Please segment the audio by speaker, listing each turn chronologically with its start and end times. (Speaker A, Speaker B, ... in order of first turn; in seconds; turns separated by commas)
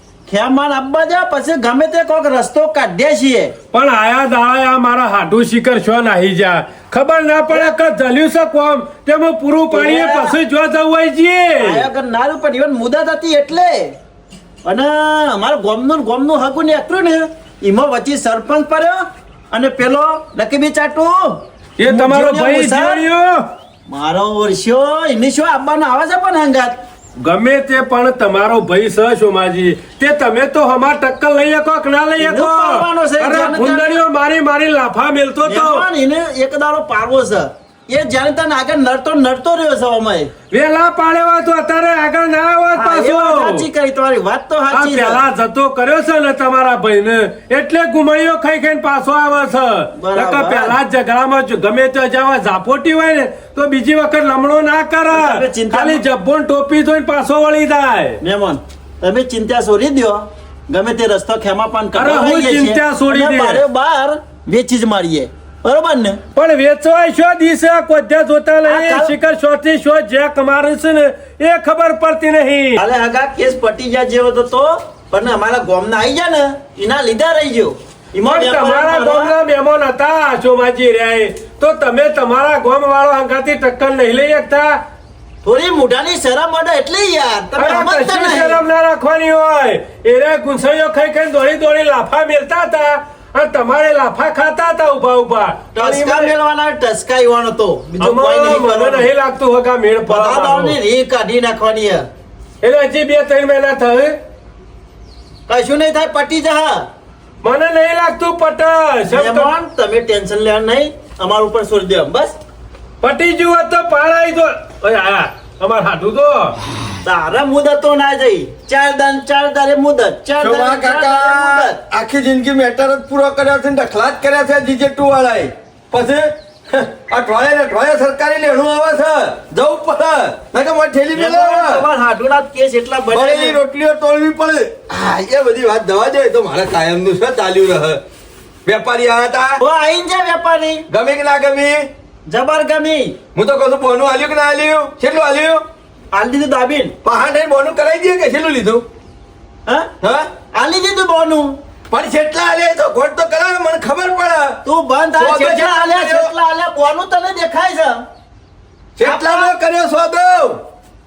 Speaker A: 0.3-3.5, Speaker B: 3.7-11.8, Speaker A: 9.7-10.4, Speaker A: 11.6-13.9, Speaker A: 14.6-23.0, Speaker B: 21.8-23.4, Speaker A: 23.9-26.8, Speaker B: 27.2-35.8, Speaker A: 32.2-34.0, Speaker A: 35.4-40.3, Speaker B: 40.5-43.7, Speaker A: 42.7-45.2, Speaker B: 44.7-58.2, Speaker A: 50.0-50.8, Speaker A: 55.1-56.0, Speaker A: 58.2-66.2, Speaker B: 61.9-63.6, Speaker B: 66.3-72.8, Speaker A: 68.7-69.1, Speaker A: 72.8-79.3, Speaker B: 78.2-84.8, Speaker A: 85.4-88.6, Speaker B: 87.5-96.3, Speaker A: 95.7-99.1, Speaker B: 98.0-100.8, Speaker A: 100.1-102.1, Speaker B: 102.6-104.2, Speaker A: 105.5-106.8, Speaker B: 107.4-109.5, Speaker A: 109.1-112.4, Speaker B: 113.0-116.5, Speaker A: 117.0-121.8, Speaker C: 120.4-131.8, Speaker A: 131.1-133.6, Speaker C: 133.1-138.0, Speaker C: 138.7-139.6, Speaker A: 139.6-140.8, Speaker C: 140.9-141.8, Speaker A: 142.3-143.2, Speaker C: 143.3-145.6, Speaker A: 146.1-146.9, Speaker C: 147.0-148.8, Speaker C: 150.0-150.3, Speaker A: 150.5-151.6, Speaker C: 151.9-154.6, Speaker A: 154.6-158.0, Speaker C: 155.2-156.3, Speaker C: 159.0-160.6, Speaker A: 159.0-159.5